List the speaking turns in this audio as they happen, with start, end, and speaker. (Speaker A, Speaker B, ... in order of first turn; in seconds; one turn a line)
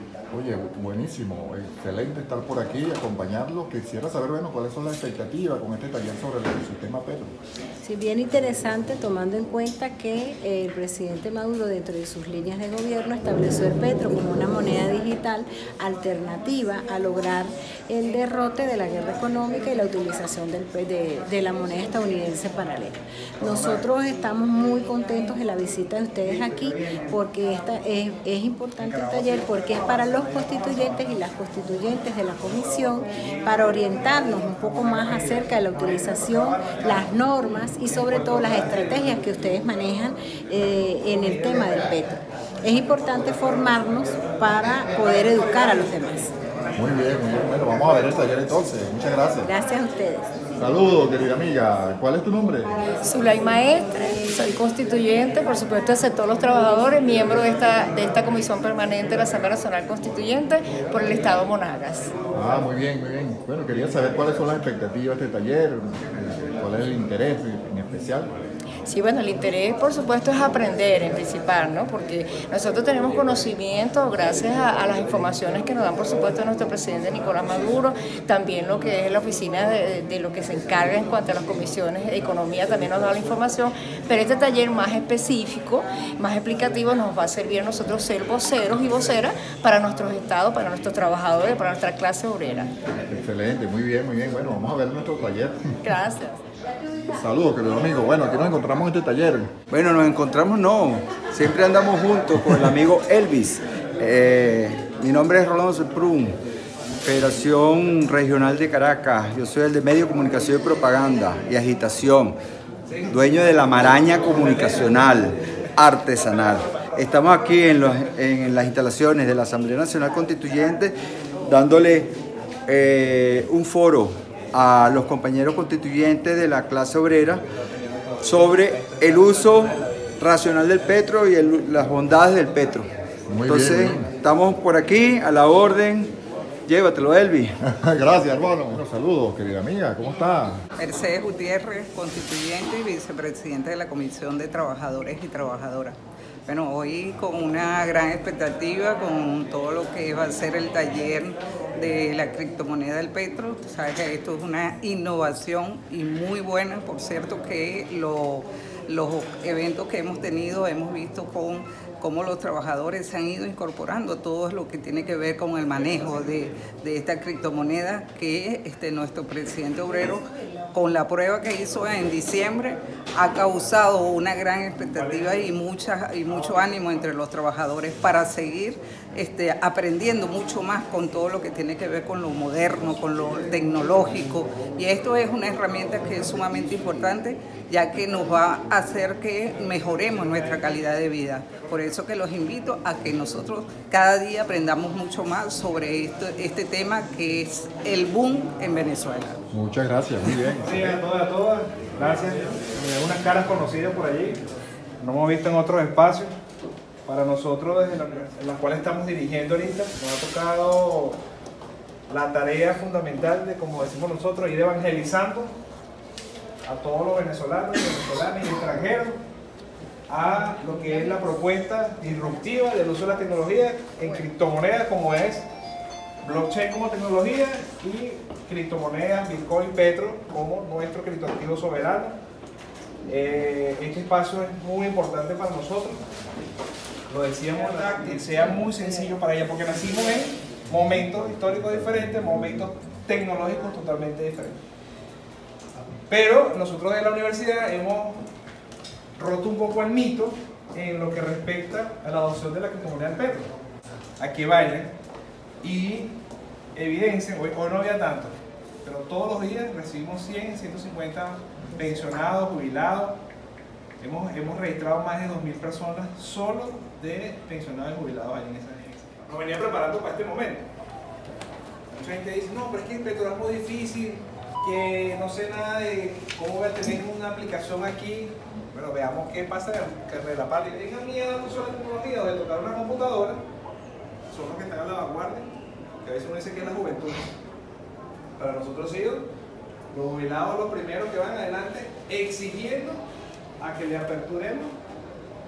Speaker A: 0.3-7.3
Speaker B: 7.8-46.3
Speaker C: 26.2-27.1
Speaker C: 28.8-31.2
Speaker C: 32.5-37.1
Speaker C: 37.9-39.2
Speaker C: 43.0-46.2
Speaker A: 46.8-49.5
Speaker B: 49.4-50.3
Speaker A: 50.6-52.7
Speaker D: 53.0-62.1
Speaker A: 62.3-68.3
Speaker D: 68.9-92.7
Speaker A: 93.1-95.6
Speaker D: 95.8-96.4
Speaker A: 97.1-99.5
Speaker E: 99.7-106.4
Speaker E: 107.0-112.4
Speaker C: 112.9-115.3
Speaker E: 113.1-121.0
Speaker C: 116.3-117.9
Speaker E: 121.5-122.1
Speaker E: 122.7-127.4
Speaker C: 127.8-130.1
Speaker E: 128.2-132.9
Speaker A: 133.3-134.1
Speaker E: 133.5-136.1
Speaker E: 136.7-137.5
Speaker A: 137.6-140.6
Speaker F: 140.8-146.0
Speaker F: 146.5-199.4
Speaker A: 199.5-201.0
Speaker C: 200.6-204.4
Speaker C: 205.0-206.3
Speaker C: 207.1-211.2
Speaker C: 212.1-215.5
Speaker C: 216.7-219.2
Speaker C: 220.1-225.5
Speaker C: 226.2-232.2
Speaker C: 233.1-236.0
Speaker C: 237.1-244.6
Speaker C: 246.1-248.3
Speaker C: 249.2-253.5
Speaker C: 254.2-254.9
Speaker C: 255.6-256.2
Speaker C: 256.7-263.2
Speaker C: 264.0-270.7
Speaker C: 271.9-283.4
Speaker C: 284.3-285.5
Speaker C: 286.0-287.3
Speaker C: 288.4-289.3
Speaker C: 289.9-293.0
Speaker C: 293.6-294.8